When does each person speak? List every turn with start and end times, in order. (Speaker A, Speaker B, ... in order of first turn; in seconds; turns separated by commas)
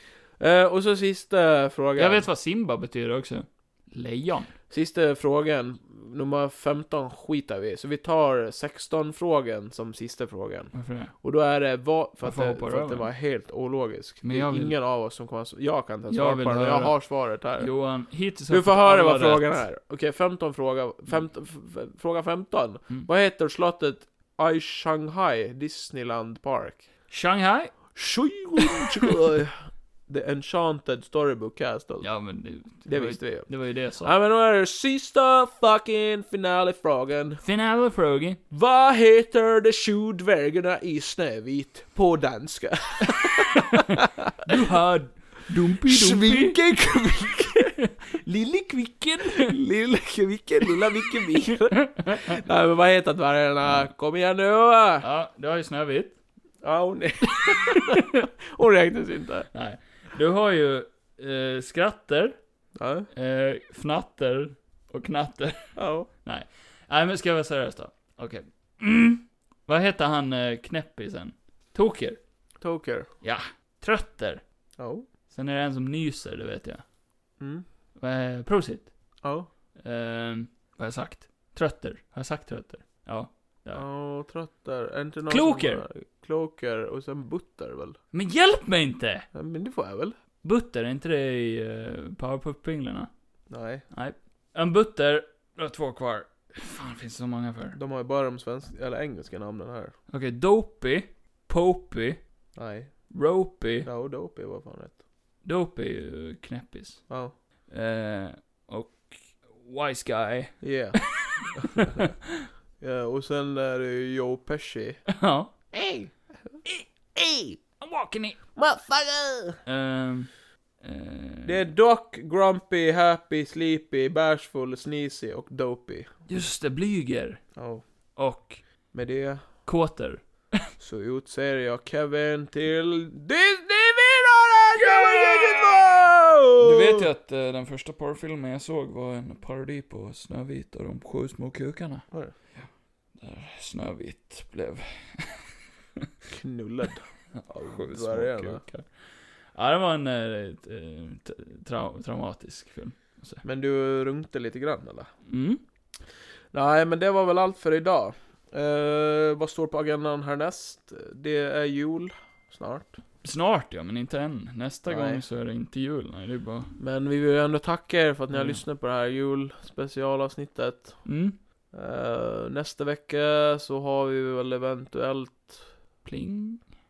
Speaker A: 0.4-2.2, Speaker B: 2.0-4.5, Speaker A: 4.7-17.7, Speaker B: 10.7-11.1, Speaker B: 12.2-13.1, Speaker B: 14.2-14.7, Speaker B: 16.1-17.0, Speaker B: 17.5-19.6, Speaker A: 18.5-26.8, Speaker B: 27.1-27.9, Speaker A: 27.9-32.1, Speaker B: 28.6-28.9, Speaker B: 32.0-34.1, Speaker A: 32.8-37.4, Speaker B: 37.4-38.4, Speaker A: 38.5-44.3, Speaker B: 44.4-46.6, Speaker A: 45.9-55.0, Speaker B: 47.5-49.5, Speaker B: 51.0-52.3, Speaker B: 53.6-53.9, Speaker B: 55.0-56.2, Speaker A: 56.6-59.5, Speaker B: 57.4-58.2, Speaker B: 59.5-62.4, Speaker A: 62.8-63.1, Speaker B: 63.1-72.2, Speaker A: 65.8-66.1, Speaker A: 72.6-73.1, Speaker B: 73.2-74.4, Speaker A: 74.8-75.0, Speaker B: 75.3-76.8, Speaker B: 78.0-78.9, Speaker B: 79.8-83.8, Speaker A: 83.7-88.0, Speaker B: 85.3-85.8, Speaker B: 88.1-89.3, Speaker A: 89.3-90.1, Speaker B: 90.4-93.1, Speaker A: 93.5-93.8, Speaker B: 93.9-97.8, Speaker A: 97.7-99.9, Speaker B: 100.1-102.2, Speaker A: 102.5-102.9, Speaker B: 103.1-103.9, Speaker A: 103.8-105.0, Speaker B: 105.4-107.1, Speaker A: 107.1-107.3, Speaker B: 107.7-112.5, Speaker A: 110.6-112.0, Speaker A: 112.8-115.0, Speaker B: 115.1-115.5, Speaker A: 115.7-116.1, Speaker A: 117.1-117.6, Speaker B: 117.8-118.4, Speaker A: 118.5-119.6, Speaker B: 119.7-121.7, Speaker A: 121.5-126.1, Speaker B: 126.3-127.4, Speaker A: 127.5-127.8, Speaker B: 128.2-128.6, Speaker A: 128.9-129.5, Speaker B: 129.6-130.7, Speaker A: 130.8-137.1, Speaker B: 134.8-146.1, Speaker A: 146.3-148.6, Speaker B: 147.3-153.4, Speaker A: 153.4-155.1, Speaker B: 155.2-155.6, Speaker A: 156.5-163.0, Speaker B: 163.2-166.8, Speaker A: 164.9-165.2, Speaker A: 166.8-171.1, Speaker B: 168.3-168.6, Speaker B: 171.0-171.3, Speaker A: 171.7-175.7, Speaker B: 176.0-176.6